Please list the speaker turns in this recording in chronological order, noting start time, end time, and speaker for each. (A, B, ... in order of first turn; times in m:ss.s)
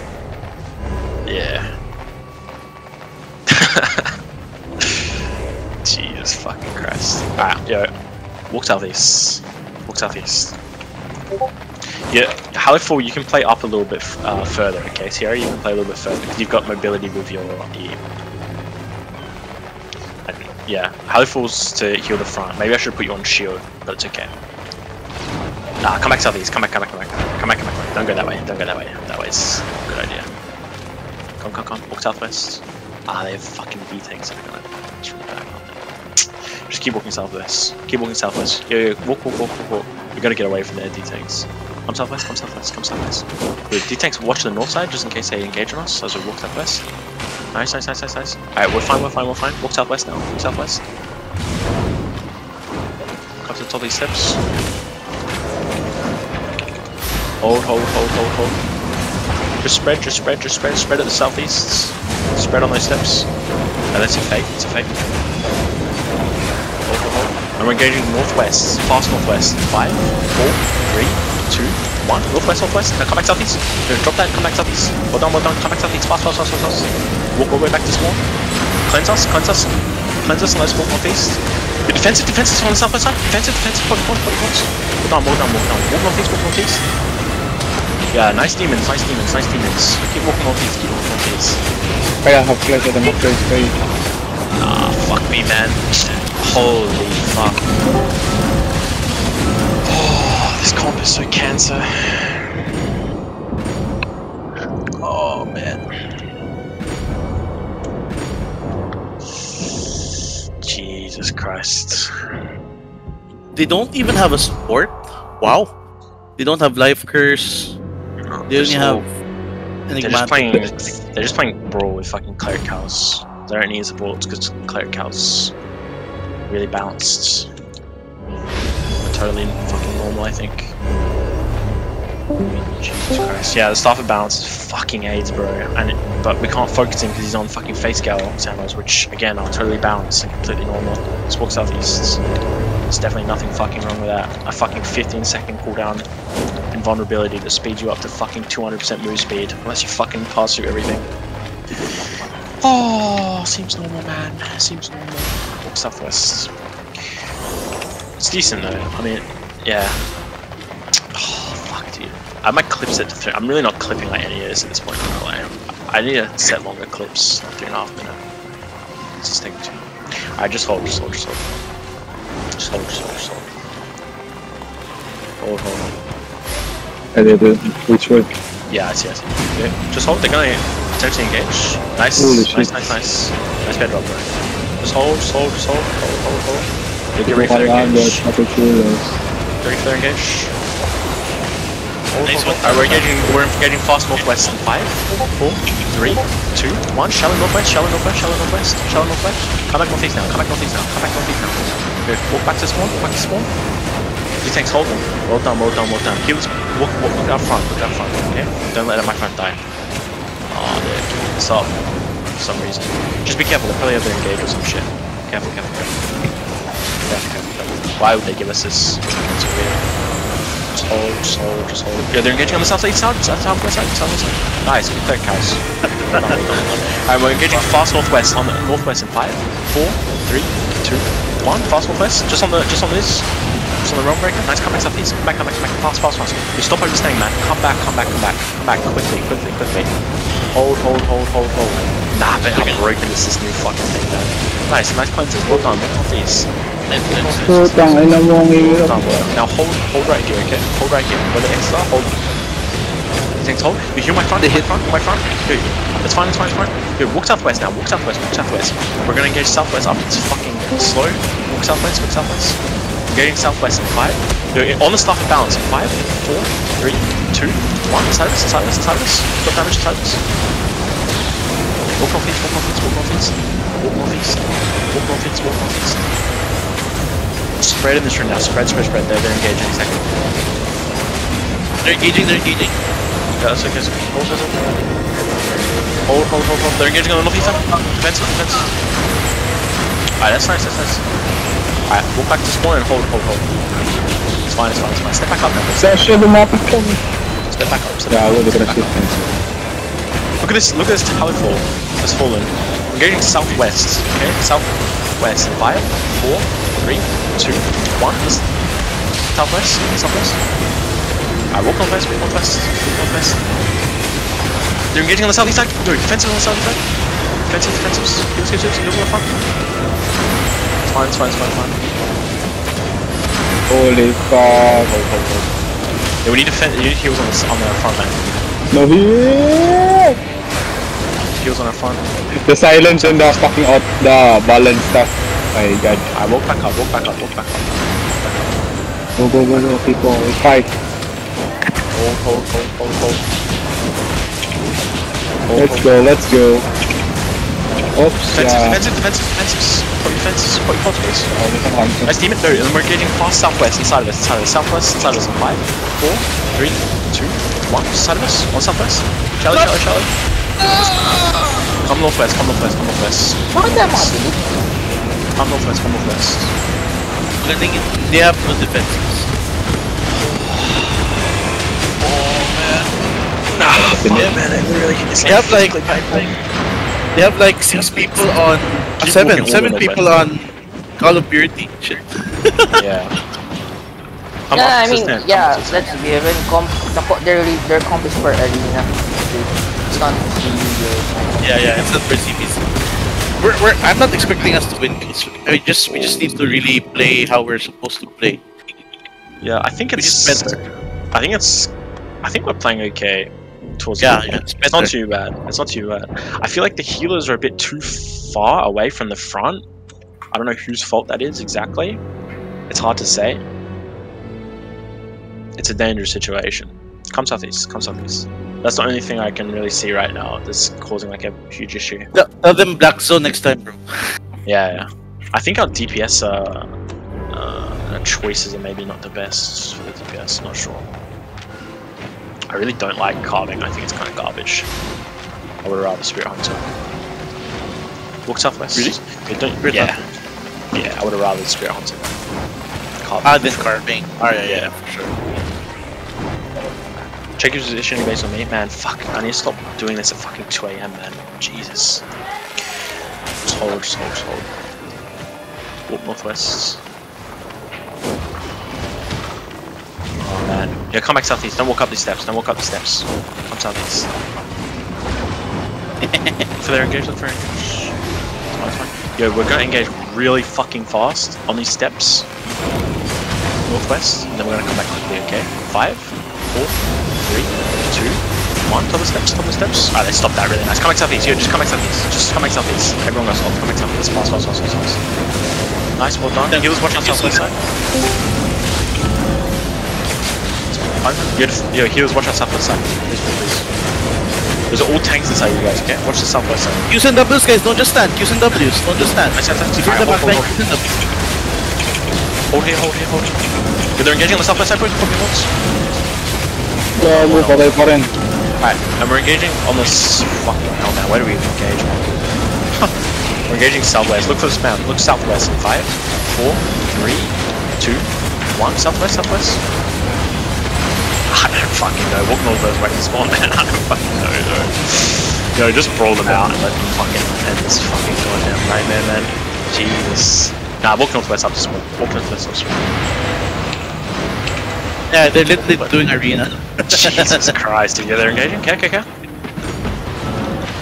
0:01.2-0:01.7 A
0:03.5-0:04.1 A
0:04.8-0:05.1 A
0:05.8-0:07.9 A
0:08.5-0:10.6 A
0:12.1-0:18.0 A
0:20.2-0:24.3 A
0:25.8-0:30.3 A
0:31.4-0:46.8 A
0:47.5-0:50.8 A
0:53.4-0:54.4 A
0:57.4-0:58.6 A
0:59.6-1:03.3 A
1:03.9-1:04.9 A
1:06.8-1:18.2 A
1:18.8-1:26.8 A
1:28.1-1:31.6 A
1:32.2-1:33.8 B
1:34.5-1:37.6 A
1:39.8-1:42.6 A
1:45.0-1:45.8 A
1:50.6-1:52.1 A
1:53.5-1:55.7 C
1:56.4-1:57.8 C
1:58.2-1:59.0 A
1:58.5-1:59.1 C
1:59.9-2:00.7 C
2:00.0-2:05.5 A
2:06.5-2:07.5 A
2:09.0-2:10.7 A
2:12.4-2:22.2 A
2:22.8-2:26.0 A
2:26.7-2:31.1 A
2:32.6-2:36.5 A
2:38.2-2:40.0 A
2:41.1-2:48.3 A
2:49.2-2:51.5 A
2:52.6-2:53.5 A
2:55.4-2:55.9 A
2:57.1-2:58.3 B
2:58.7-3:04.3 A
3:02.2-3:03.0 B
3:04.8-3:08.2 A
3:07.2-3:09.2 B
3:09.6-3:10.5 A
3:12.1-3:23.5 A
3:12.2-3:13.1 C
3:24.4-3:29.6 A
3:30.5-3:31.7 A
3:32.3-3:36.0 A
3:37.1-3:39.8 A
3:40.7-3:53.3 A
3:46.1-3:46.9 C
3:53.8-3:59.9 A
4:00.5-4:12.2 A
4:06.9-4:07.6 C
4:07.4-4:09.3 B
4:13.4-4:30.2 A
4:32.0-4:36.0 A
4:37.6-4:40.1 A
4:41.8-4:42.8 C
4:43.4-4:44.8 A
4:46.0-4:48.7 A
4:50.2-4:51.0 A
4:51.9-4:53.5 A
4:54.4-4:56.1 A
4:55.8-4:57.0 B
4:57.4-4:59.0 A
4:58.1-4:59.3 B
5:00.4-5:08.5 A
5:09.3-5:10.4 A
5:11.5-5:13.4 A
5:14.9-5:16.8 A
5:17.4-5:19.4 A
5:20.8-5:22.0 A
5:23.7-5:24.9 B
5:24.4-5:25.5 A
5:26.2-5:28.4 A
5:28.7-5:30.2 B
5:31.3-5:32.1 A
5:32.4-5:36.0 B
5:32.8-5:33.5 A
5:36.1-5:38.6 A
5:39.2-5:40.7 B
5:41.9-5:43.2 A
5:45.4-5:46.0 A
5:45.5-5:46.7 B
5:47.9-5:48.8 B
5:48.3-5:51.3 A
5:51.3-5:52.1 B
5:52.0-6:00.1 A
6:01.8-6:04.2 A
6:03.5-6:04.6 D
6:05.4-6:06.5 A
6:07.4-6:09.3 C
6:10.6-6:10.8 A
6:12.0-6:12.9 A
6:13.5-6:16.3 A
6:13.7-6:14.4 B
6:15.2-6:16.3 C
6:17.1-6:22.7 C
6:19.0-6:20.1 A
6:22.8-6:23.1 A
6:24.5-6:25.9 A
6:24.5-6:31.4 D
6:31.4-6:32.7 C
6:33.4-6:38.4 C
6:35.9-6:36.3 A
6:39.4-6:40.6 A
6:40.0-6:40.7 C
6:41.1-6:41.7 A
6:42.2-6:49.6 A
6:44.0-6:44.9 C
6:50.3-6:52.0 A
6:52.7-6:53.4 A
6:55.6-7:02.1 A
7:02.1-7:03.8 C
7:04.4-7:06.7 A
7:07.3-7:10.9 A
7:12.5-7:14.7 A
7:15.6-7:16.7 A
7:18.2-7:20.0 A
7:18.7-7:19.0 C
7:19.6-7:20.0 C
7:20.7-7:22.1 A
7:23.0-7:23.6 A
7:23.2-7:25.1 C
7:24.4-7:24.7 A
7:27.4-7:32.0 A
7:33.4-7:34.5 A
7:35.9-7:36.8 A
7:40.2-7:44.1 A
7:46.0-7:46.5 C
7:46.6-7:47.9 A
7:48.5-7:52.3 A
7:53.6-8:05.0 A
8:06.0-8:07.6 A
8:06.5-8:07.5 C
8:10.7-8:13.7 A
8:14.7-8:16.9 A
8:16.9-8:20.8 C
8:19.3-8:20.5 A
8:22.5-8:23.4 A
8:24.0-8:25.5 A
8:27.0-8:28.1 B
8:27.0-8:27.9 A
8:28.6-8:32.2 A
8:33.5-8:39.6 A
8:41.3-8:52.9 A
8:55.1-8:57.5 C
8:56.9-8:59.0 A